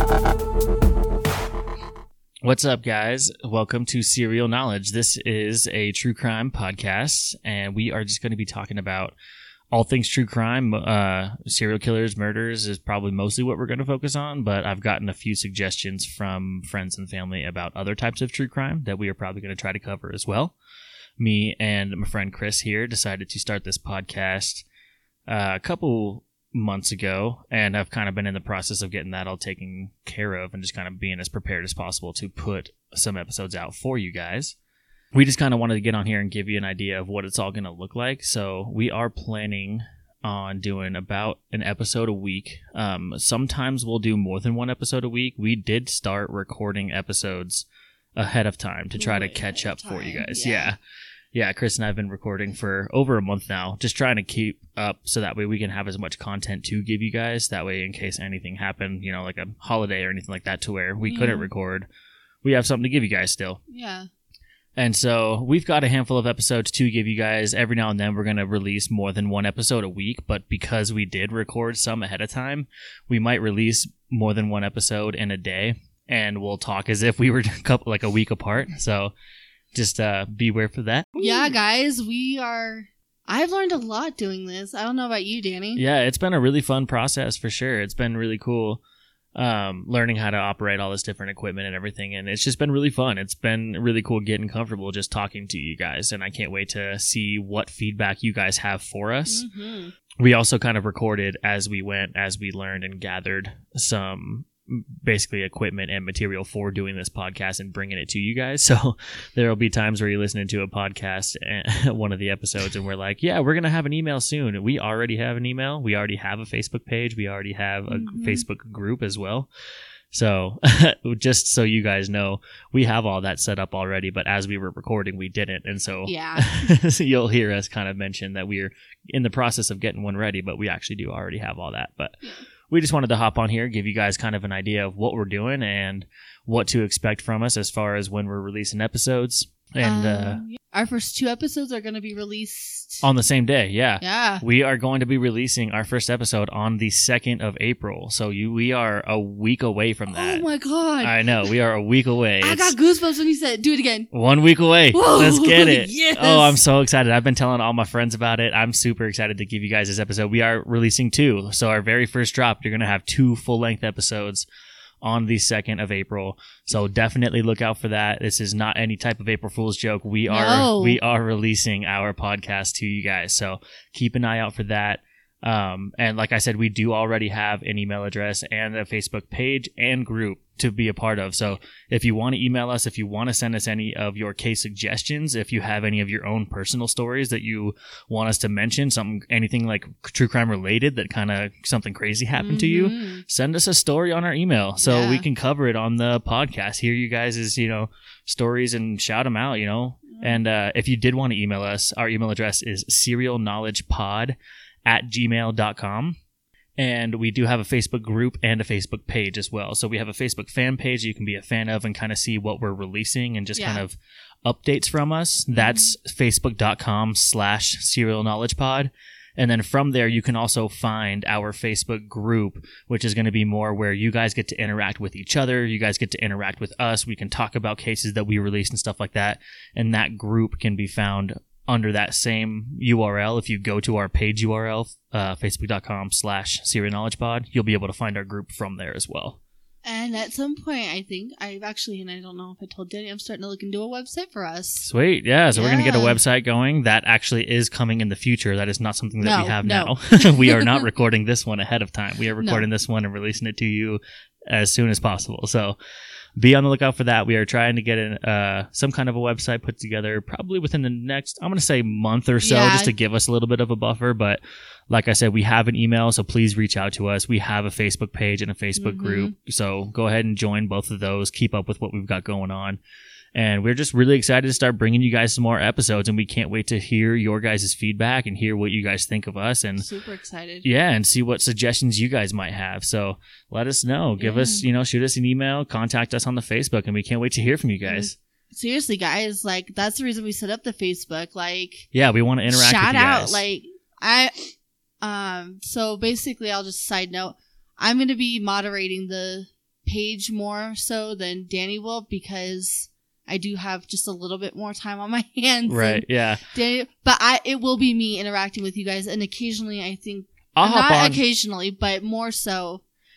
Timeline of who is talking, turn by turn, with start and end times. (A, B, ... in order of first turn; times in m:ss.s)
0:02.4-0:09.1 A
0:09.7-0:20.5 A
0:21.2-0:24.6 A
0:25.3-0:34.6 A
0:35.1-0:50.8 A
0:49.0-0:50.7 B
0:51.3-1:01.9 A
1:01.0-1:01.5 B
1:02.4-1:03.6 A
1:03.7-1:04.1 B
1:04.8-1:19.1 A
1:19.7-1:21.2 A
1:21.2-1:25.8 B
1:25.7-1:28.8 A
1:29.3-1:39.4 A
1:39.3-1:39.9 B
1:40.2-1:59.5 A
1:57.9-1:58.4 B
2:00.1-2:20.4 A
2:06.0-2:06.6 B
2:19.8-2:23.0 B
2:23.0-2:30.4 A
2:24.0-2:24.4 B
2:30.1-2:31.5 B
2:31.0-2:32.7 A
2:32.4-2:34.1 B
2:34.1-2:44.4 A
2:34.9-2:36.6 B
2:45.0-3:26.2 A
2:50.3-2:51.0 B
3:12.4-3:13.2 B
3:14.8-3:15.2 B
3:26.8-3:59.4 A
3:33.6-3:33.8 B
3:35.6-3:35.9 B
3:59.8-4:04.9 B
4:04.8-4:15.8 A
4:05.5-4:06.2 B
4:09.2-4:10.8 B
4:12.4-4:12.7 B
4:16.4-4:32.8 A
4:22.4-4:22.9 B
4:28.8-4:29.3 B
4:33.3-4:39.9 A
4:39.8-4:40.6 B
4:40.6-4:48.1 A
4:44.2-4:44.6 B
4:47.8-4:51.9 B
4:51.9-4:53.4 A
4:52.5-5:12.8 B
5:05.6-5:06.4 A
5:10.5-5:11.2 A